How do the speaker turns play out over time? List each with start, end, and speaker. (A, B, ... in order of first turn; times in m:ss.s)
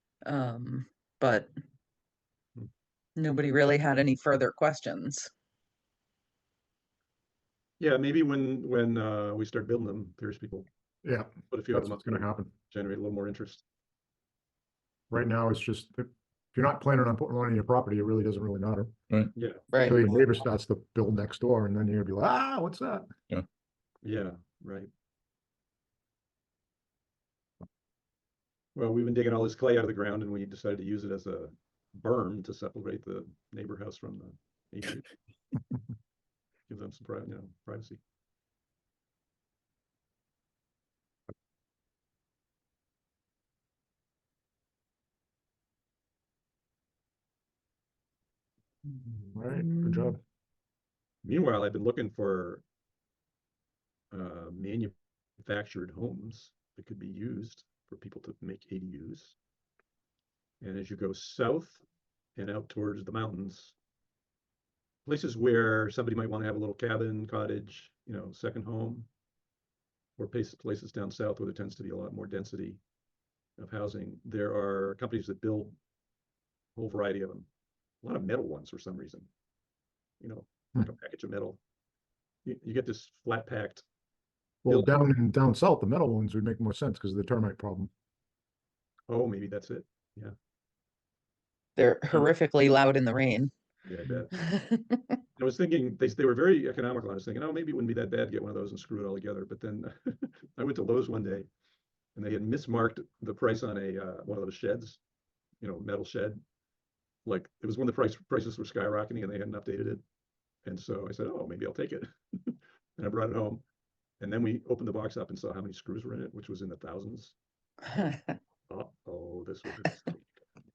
0:00.2-0:01.5 A
0:03.2-0:05.3 A
0:07.8-0:10.7 B
0:11.0-0:12.5 C
0:11.5-0:13.6 B
0:15.1-0:18.9 C
0:19.4-0:19.7 B
0:19.7-0:20.0 A
0:19.8-0:23.1 C
0:24.0-0:24.9 B
0:28.7-0:35.1 B
0:36.7-0:38.0 B
0:49.0-0:50.2 C
0:49.5-0:50.1 A
0:51.2-0:52.6 B
0:54.1-0:59.3 B
1:00.6-1:01.8 B
1:02.4-1:03.7 B
1:05.0-1:09.1 B
1:10.2-1:12.8 B
1:13.6-1:15.8 B
1:16.8-1:17.5 B
1:18.0-1:19.3 B
1:20.2-1:21.6 B
1:22.4-1:23.8 B
1:24.6-1:27.9 C
1:24.6-1:24.9 B
1:29.1-1:30.3 B
1:31.8-1:33.5 A
1:33.8-1:34.3 B
1:34.3-1:35.2 A
1:35.4-1:41.5 B
1:42.2-1:45.0 B
1:45.6-1:46.4 B
1:47.2-1:50.0 B
1:50.6-1:53.6 B
1:54.2-1:57.3 B
1:57.9-1:58.4 A
1:58.7-2:00.3 B